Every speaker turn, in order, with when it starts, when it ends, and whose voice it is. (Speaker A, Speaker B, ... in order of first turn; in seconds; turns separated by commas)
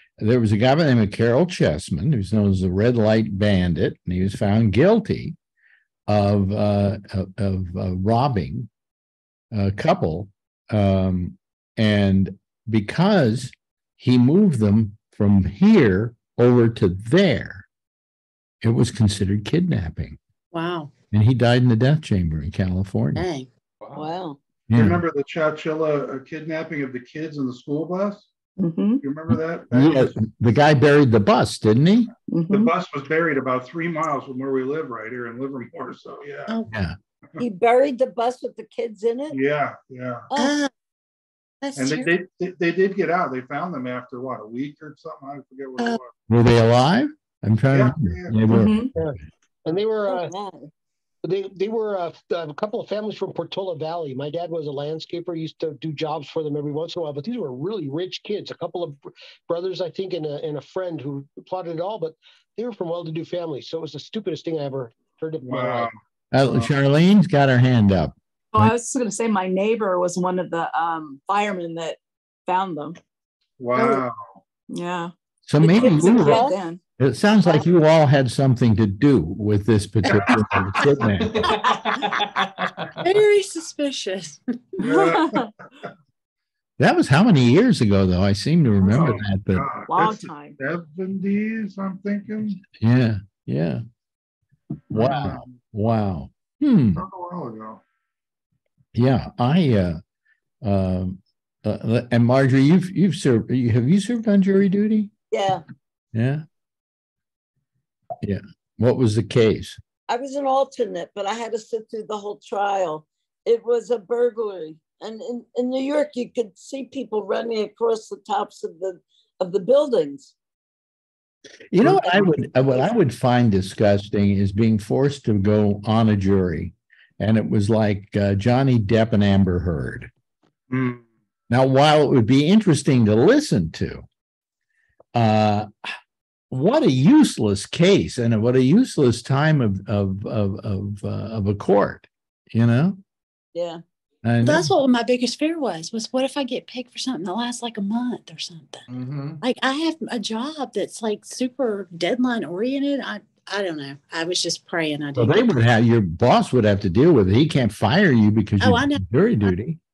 Speaker A: 0.2-5.4, Speaker A: 6.1-8.7, Speaker A: 9.5-17.7, Speaker A: 18.6-20.2, Speaker B: 20.5-20.9, Speaker A: 21.1-23.2, Speaker B: 23.2-23.5, Speaker C: 23.8-24.1, Speaker D: 23.9-24.4, Speaker A: 24.7-25.1, Speaker E: 24.7-28.3, Speaker F: 28.6-29.0, Speaker E: 29.0-30.1, Speaker A: 29.7-32.1, Speaker F: 32.3-32.7, Speaker E: 32.5-36.6, Speaker A: 36.7-37.0, Speaker D: 37.4-39.4, Speaker E: 39.3-40.3, Speaker D: 40.3-40.6, Speaker B: 40.4-40.7, Speaker B: 41.6-42.1, Speaker E: 41.8-46.1, Speaker A: 46.3-49.1, Speaker E: 47.7-48.5, Speaker F: 48.5-48.9, Speaker G: 49.0-50.3, Speaker D: 50.1-50.7, Speaker G: 51.2-65.9, Speaker E: 65.4-66.7, Speaker A: 66.3-68.7, Speaker F: 68.5-73.0, Speaker E: 73.6-74.4, Speaker F: 74.7-76.8, Speaker A: 75.5-76.5, Speaker D: 75.8-76.6, Speaker A: 77.0-81.5, Speaker E: 80.1-81.1, Speaker C: 81.2-82.9, Speaker B: 83.0-84.4, Speaker E: 84.8-85.4, Speaker F: 84.8-85.5, Speaker A: 86.8-89.7, Speaker E: 88.8-92.6, Speaker F: 89.9-90.6, Speaker A: 92.7-93.8, Speaker E: 94.9-95.5, Speaker A: 94.9-97.0, Speaker E: 97.0-97.8, Speaker A: 98.9-100.0, Speaker A: 100.6-105.1, Speaker D: 105.3-105.6, Speaker A: 106.1-106.4, Speaker A: 108.2-109.8, Speaker D: 110.1-120.3, Speaker A: 121.7-130.1, Speaker E: 121.8-122.2, Speaker E: 130.7-131.1, Speaker A: 131.5-134.1, Speaker A: 135.1-135.9, Speaker A: 136.5-143.0, Speaker D: 143.5-143.8, Speaker A: 144.2-144.7, Speaker B: 144.4-148.9, Speaker C: 148.9-149.4, Speaker B: 149.4-155.5, Speaker A: 155.2-159.8, Speaker B: 158.6-159.5